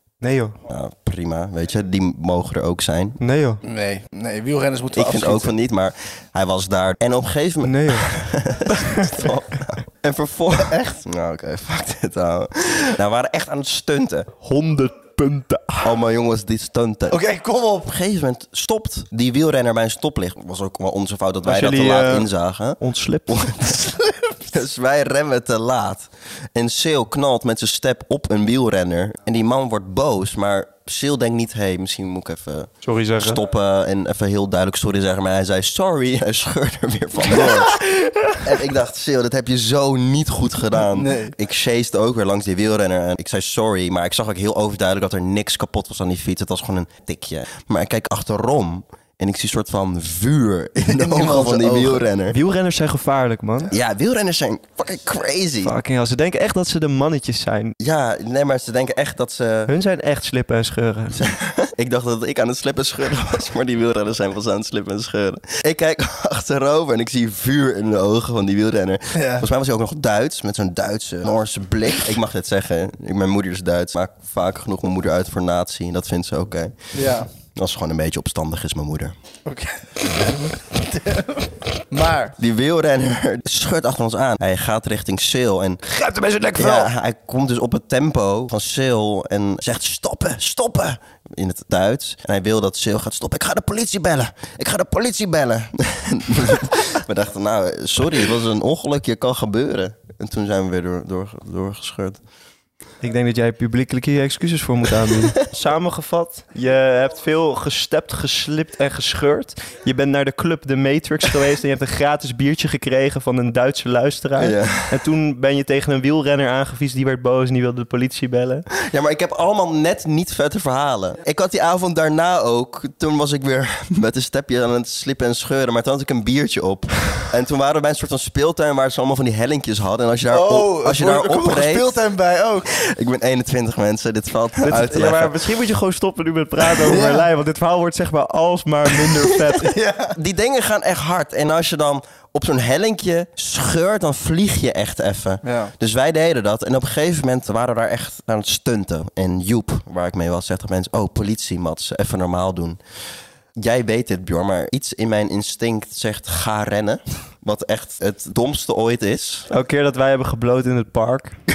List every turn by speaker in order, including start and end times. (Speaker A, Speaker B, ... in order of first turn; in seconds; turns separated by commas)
Speaker A: 0.2-0.6, Speaker B: 0.7-3.2, Speaker A: 3.2-3.6, Speaker C: 3.6-5.5, Speaker B: 4.9-14.3, Speaker A: 7.6-8.1, Speaker A: 8.7-9.3, Speaker C: 10.7-11.0, Speaker A: 14.4-15.9, Speaker B: 15.8-17.2, Speaker C: 17.1-17.9, Speaker B: 17.8-23.7, Speaker A: 21.4-23.6, Speaker C: 23.7-24.3, Speaker B: 24.5-37.8, Speaker A: 32.8-33.4, Speaker A: 37.4-38.4, Speaker B: 38.4-52.4, Speaker C: 40.8-41.3, Speaker C: 50.9-52.0, Speaker A: 52.3-53.7, Speaker B: 53.7-55.7, Speaker A: 55.6-57.8, Speaker B: 57.8-59.7, Speaker A: 59.7-61.2, Speaker B: 61.1-77.0, Speaker C: 69.1-69.5, Speaker C: 76.9-77.3, Speaker B: 77.5-79.1, Speaker C: 79.5-82.3, Speaker B: 82.4-85.8, Speaker A: 85.9-86.9, Speaker B: 86.5-102.2, Speaker A: 103.0-118.7, Speaker B: 114.4-115.0, Speaker B: 118.8-131.9, Speaker C: 130.3-132.7, Speaker B: 132.8-135.3, Speaker A: 134.6-139.8, Speaker C: 134.7-135.1, Speaker C: 136.8-137.3, Speaker C: 139.5-140.2, Speaker B: 140.1-152.8, Speaker C: 145.4-145.7, Speaker B: 153.6-159.5, Speaker A: 159.5-161.4